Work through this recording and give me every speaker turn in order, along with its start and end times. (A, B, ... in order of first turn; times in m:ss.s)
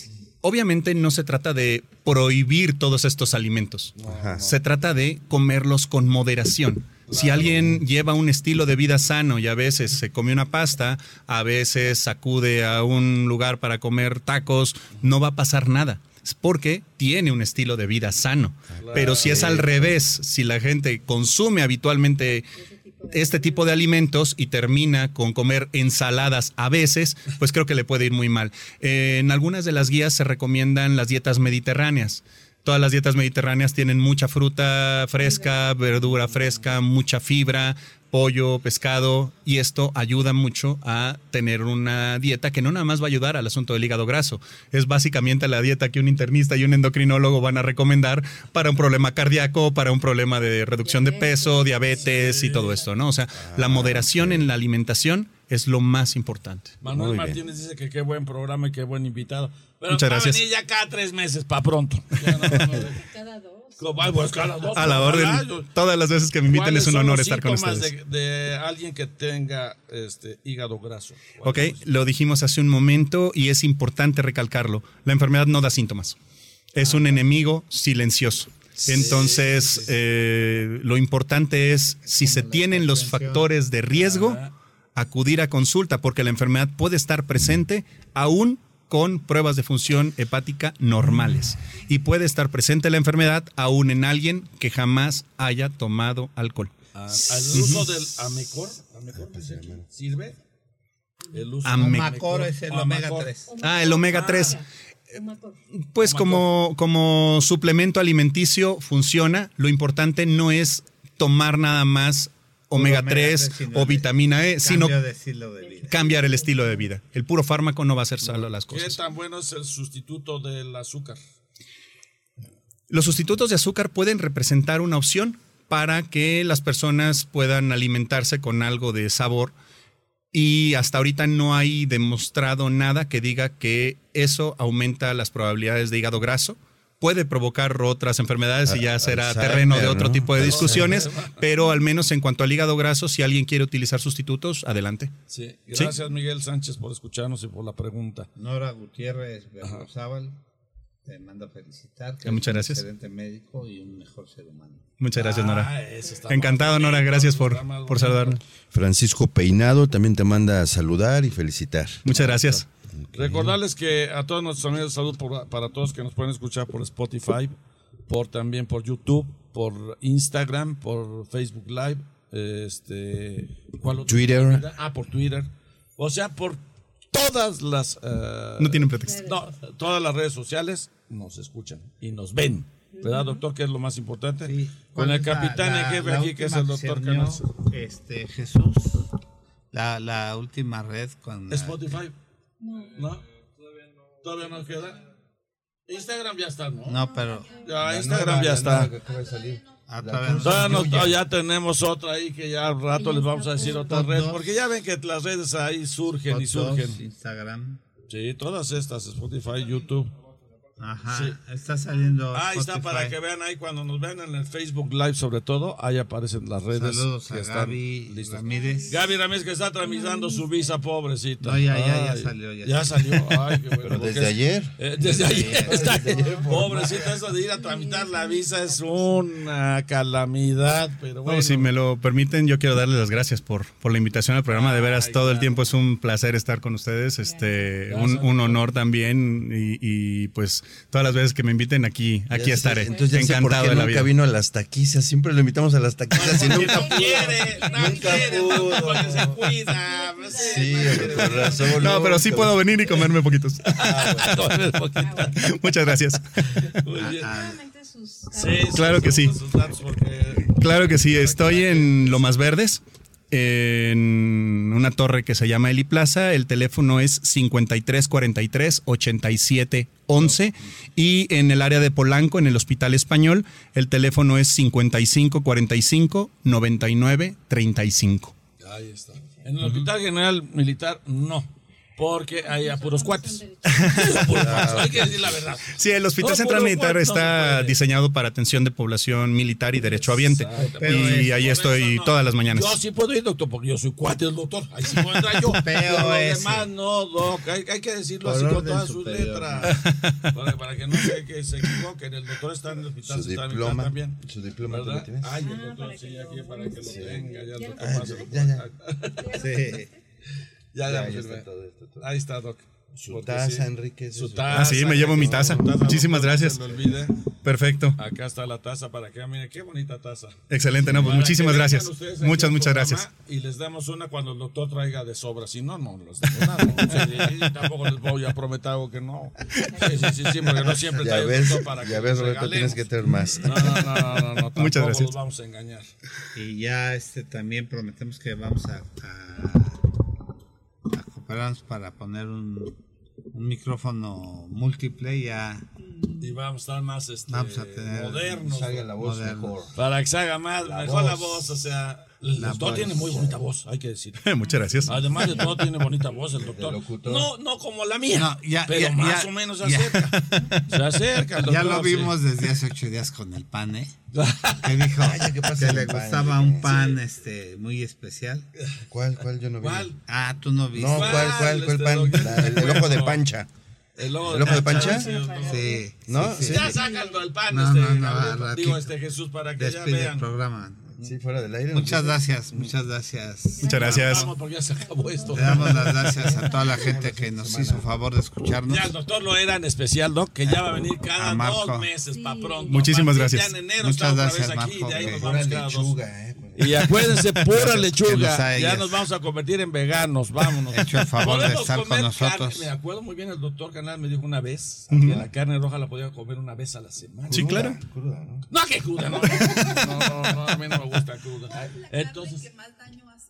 0:00.4-0:22.5 A
0:04.0-0:04.4 B
0:04.0-0:04.5 C
0:07.1-0:07.7 B
0:18.7-0:20.0 C
0:18.8-0:19.5 B
0:22.6-0:23.9 D
0:23.1-0:56.7 A
0:50.8-0:52.9 D
0:52.0-0:52.8 B
0:53.4-0:54.4 C
0:56.8-1:03.0 B
0:56.9-0:57.4 C
0:59.9-1:00.4 A
1:02.2-1:02.4 A
1:02.6-1:04.4 D
1:03.8-1:05.7 B
1:04.7-1:07.9 A
1:06.5-1:12.1 B
1:11.4-1:16.2 A
1:16.7-1:24.4 A
1:16.8-1:17.1 B
1:18.8-1:19.9 B
1:22.1-1:23.5 E
1:23.9-1:24.5 B
1:25.0-1:37.9 A
1:36.9-1:40.4 B
1:39.1-1:39.8 C
1:41.3-1:43.3 B
1:41.6-1:42.1 A
1:41.8-1:43.5 E
1:43.5-1:45.6 D
1:43.6-1:44.6 A
1:44.0-1:44.6 B
1:45.8-1:55.0 A
1:46.0-1:46.5 B
1:52.8-1:56.2 E
1:55.6-1:56.9 D
1:55.9-1:59.0 A
1:58.7-2:01.2 B
2:02.9-2:09.6 A
2:10.3-2:25.1 A
2:18.7-2:21.0 C
2:20.4-2:21.4 B
2:25.3-2:28.3 B
2:28.4-2:30.4 E
2:31.0-2:34.8 E
2:32.2-2:32.8 A
2:35.0-2:35.7 A
2:35.1-2:38.4 B
2:36.3-2:38.4 A
2:38.7-2:43.5 C
2:42.0-2:42.7 A
2:43.2-2:47.5 B
2:48.1-3:07.5 B
2:54.0-2:54.6 C
2:58.6-2:59.2 A
2:59.0-2:59.5 D
3:02.9-3:03.4 D
3:04.4-3:09.1 E
3:09.7-3:12.0 E
3:11.5-3:12.1 B
3:12.6-3:13.0 D
3:12.9-3:13.2 B
3:14.2-3:15.0 B
3:15.8-3:17.0 B
3:16.8-3:17.6 E
3:17.0-3:17.6 D
3:17.6-3:19.0 B
3:17.8-3:21.2 C
3:19.9-3:21.1 E
3:20.4-3:27.0 B
3:22.9-3:24.0 D
3:23.8-3:24.4 E
3:26.2-3:27.8 E
3:28.1-3:30.1 B
3:30.8-3:33.2 E
3:31.1-3:31.4 B
3:32.3-3:51.7 B
3:36.7-3:39.0 E
3:38.5-3:38.9 D
3:39.8-3:40.4 D
3:41.4-3:43.4 E
3:43.8-3:47.2 C
3:45.0-3:46.0 E
3:45.7-3:46.4 D
3:47.5-3:49.0 D
3:51.2-4:04.1 A
3:54.5-3:55.6 B
3:57.2-3:57.7 D
3:57.9-3:58.6 B
4:02.3-4:09.4 C
4:06.1-4:12.1 B
4:06.6-4:08.9 D
4:09.6-4:11.6 D
4:10.4-4:12.6 C
4:11.6-4:13.8 A
4:13.6-4:15.4 B
4:13.7-4:14.5 C
4:15.0-4:15.4 D
4:15.3-4:16.7 A
4:16.5-4:17.3 B
4:17.0-4:17.6 E
4:17.0-4:19.2 D
4:18.3-4:22.4 B
4:18.7-4:19.4 A
4:20.4-4:38.4 A
4:38.6-4:47.7 B
4:39.6-4:39.9 A
4:42.3-4:44.2 D
4:43.6-4:44.7 A
4:44.3-4:45.3 C
4:45.7-4:52.8 A
4:50.1-5:09.4 B
4:50.6-4:51.5 E
4:55.5-4:56.7 E
4:58.2-4:59.8 E
4:59.7-5:00.3 A
5:03.0-5:05.4 C
5:05.4-5:08.4 D
5:06.8-5:08.7 C
5:09.1-5:09.9 D
5:09.3-5:09.9 E
5:10.7-5:11.4 B
5:10.8-5:12.1 C
5:12.0-5:17.1 B
5:13.0-5:15.7 C
5:14.5-5:16.6 A
5:17.4-5:18.0 A
5:18.0-5:32.8 B
5:20.5-5:23.0 A
5:20.9-5:21.2 C
5:30.4-5:34.1 C
5:33.4-5:35.9 B
5:34.5-5:35.1 A
5:36.3-5:39.8 E
5:40.9-5:42.8 E
5:43.3-5:45.7 E
5:46.2-5:48.8 B
5:47.3-5:49.6 E
5:48.3-5:49.7 C
5:49.7-5:54.3 B
5:50.6-5:51.5 C
5:52.3-5:53.3 E
5:52.4-5:53.3 C
5:54.2-5:55.3 A
5:54.4-5:54.8 D
5:54.8-6:02.2 B
5:55.1-5:55.6 C
5:56.4-5:57.3 C
5:58.1-6:00.5 E
6:00.3-6:00.7 A
6:01.4-6:04.0 E
6:04.1-6:04.8 B
6:04.5-6:08.5 E
6:05.0-6:06.7 C
6:06.6-6:07.0 B
6:08.9-6:09.9 C
6:09.6-6:10.0 B
6:10.0-6:11.5 E
6:10.7-6:13.5 C
6:10.9-6:13.2 B
6:14.0-6:15.7 B
6:14.2-6:15.1 C
6:14.4-6:15.9 D
6:15.4-6:16.8 E
6:16.0-6:16.8 C
6:16.4-6:20.3 B
6:16.7-6:17.2 D
6:17.4-6:18.9 E
6:19.6-6:21.0 E
6:21.0-6:22.2 C
6:21.7-6:24.3 E
6:23.6-6:24.1 D
6:23.6-6:24.3 A
6:23.7-6:26.3 B
6:24.8-6:26.8 D
6:25.3-6:28.9 E
6:26.5-6:27.9 C
6:28.6-6:36.0 B
6:31.1-6:31.9 E
6:32.1-6:32.9 D
6:32.7-6:33.5 A
6:33.8-6:35.3 E
6:34.9-6:37.0 C
6:36.6-6:47.6 B
6:37.5-6:39.0 E
6:40.7-6:42.7 E
6:44.9-6:45.2 A
6:44.9-6:45.3 C
6:47.3-6:48.4 C
6:47.3-6:47.8 A
6:48.5-6:52.6 B
6:49.2-6:50.7 A
6:51.5-6:51.8 C
6:52.8-6:53.1 D